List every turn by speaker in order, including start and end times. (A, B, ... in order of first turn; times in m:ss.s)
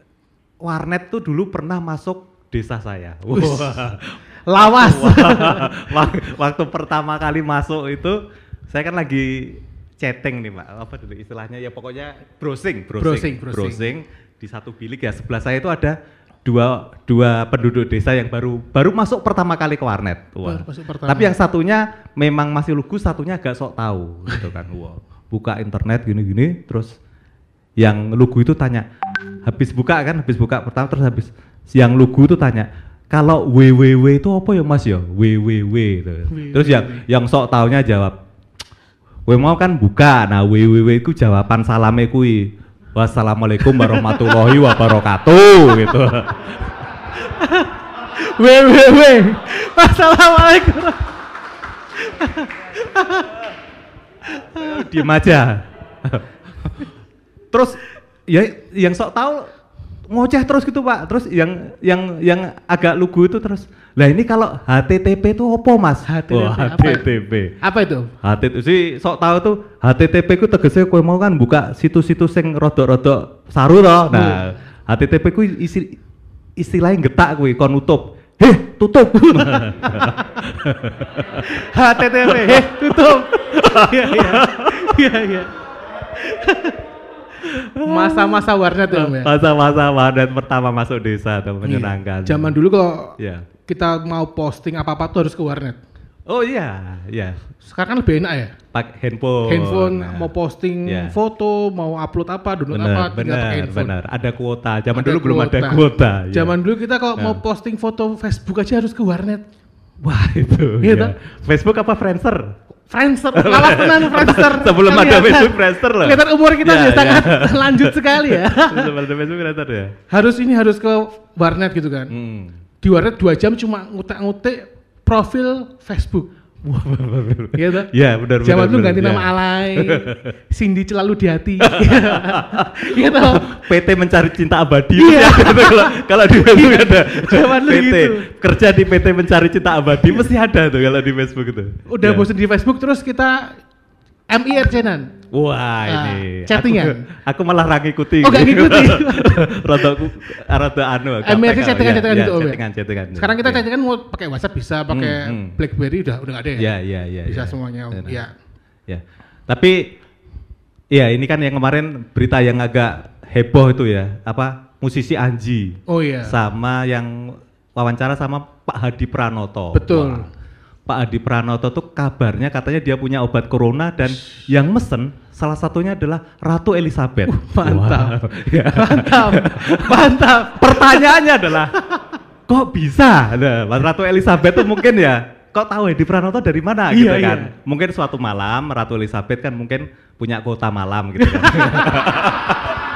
0:00.6-0:27.0 A
0:03.3-0:04.0 B
0:04.5-0:06.0 B
0:13.0-0:13.9 B
0:20.4-0:21.3 B
0:27.8-0:28.9 A
0:29.4-0:38.2 A
0:36.3-0:37.1 B
0:39.3-0:46.8 A
0:43.7-0:44.5 B
0:47.2-0:51.1 B
0:52.0-0:53.4 B
0:54.4-0:55.0 B
0:54.6-0:56.8 A
0:57.5-0:59.5 A
1:00.1-1:07.6 A
1:06.1-1:07.1 B
1:07.6-1:08.1 B
1:08.2-1:16.0 A
1:14.1-1:14.4 B
1:16.6-1:25.0 A
1:19.4-1:20.1 B
1:21.5-1:25.5 B
1:26.3-1:26.8 B
1:27.5-1:32.6 A
1:27.9-1:29.3 B
1:31.6-1:35.8 B
1:33.2-1:33.5 A
1:36.3-1:37.4 A
1:37.6-1:38.6 B
1:38.7-1:40.3 A
1:39.5-1:43.9 B
1:40.9-1:41.2 A
1:42.7-1:46.6 A
1:45.0-1:49.4 B
1:50.0-1:52.6 A
1:50.8-1:51.2 B
1:52.9-1:58.9 B
1:53.3-1:59.9 A
2:00.1-2:02.1 B
2:02.1-2:02.6 A
2:02.8-2:06.3 B
2:06.7-2:10.3 A
2:07.6-2:07.9 B
2:08.4-2:13.5 B
2:11.6-2:22.3 A
2:15.0-2:18.3 B
2:21.9-2:23.6 B
2:24.3-2:25.1 B
2:25.3-2:33.7 A
2:25.9-2:27.1 B
2:28.2-2:30.1 B
2:31.2-2:32.6 B
2:33.2-2:36.7 B
2:34.9-2:35.6 A
2:36.6-2:38.2 A
2:37.3-2:38.3 B
2:38.9-2:40.0 A
2:40.9-2:50.3 A
2:45.9-2:46.4 B
2:49.8-2:50.3 B
2:50.9-3:01.8 A
2:57.3-3:01.3 B
3:02.5-3:12.8 A
3:06.9-3:07.5 B
3:11.3-3:12.2 B